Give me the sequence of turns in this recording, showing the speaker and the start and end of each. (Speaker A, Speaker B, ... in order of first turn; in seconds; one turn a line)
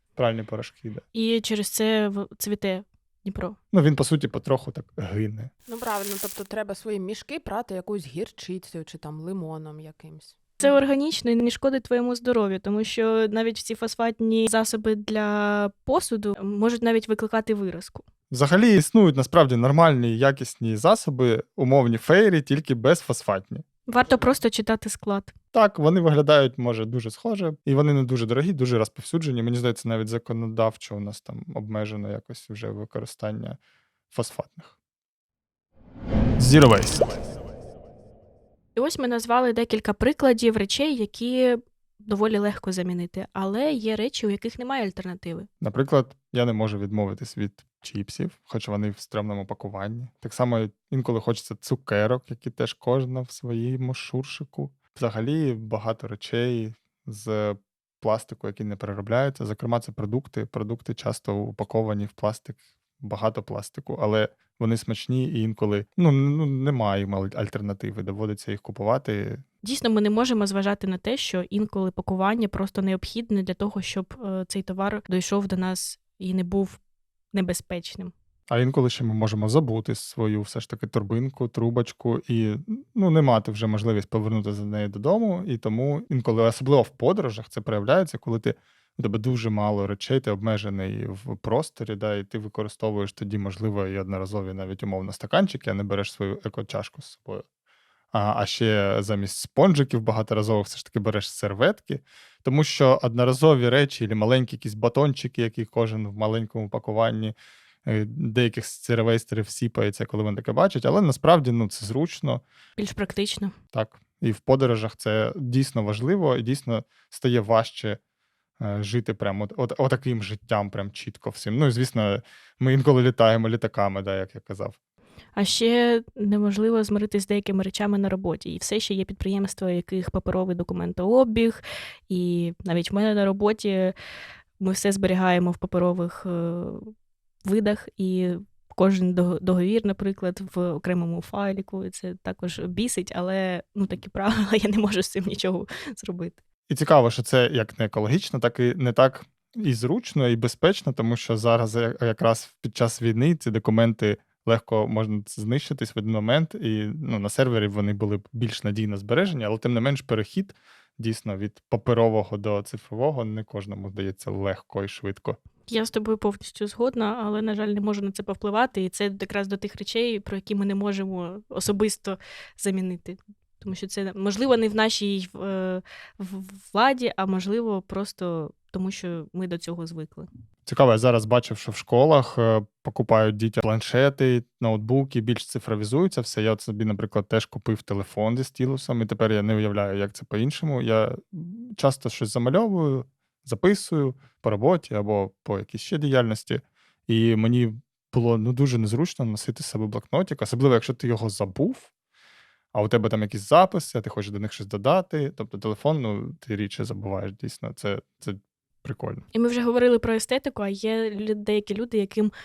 Speaker A: 0.2-1.0
Speaker B: 1.1-3.6
Speaker A: 3.7-5.5
Speaker C: 5.7-10.4
Speaker B: 10.6-18.1
Speaker A: 18.3-23.7
Speaker B: 23.9-25.3
Speaker A: 25.5-33.6
Speaker A: 34.1-34.8
Speaker A: 36.4-37.1
Speaker B: 38.8-45.5
Speaker A: 45.6-69.4
Speaker B: 69.6-76.8
Speaker B: 77.3-78.1
Speaker A: 78.5-97.5
Speaker A: 98.1-112.4
Speaker B: 112.8-113.5
Speaker A: 113.7-118.0
Speaker A: 118.6-124.8
Speaker B: 125.4-133.9
Speaker B: 134.6-136.9
Speaker B: 137.4-146.4
Speaker A: 146.7-165.4
Speaker B: 165.7-180.3
Speaker A: 180.7-201.9
Speaker A: 202.7-209.2
Speaker B: 209.3-212.3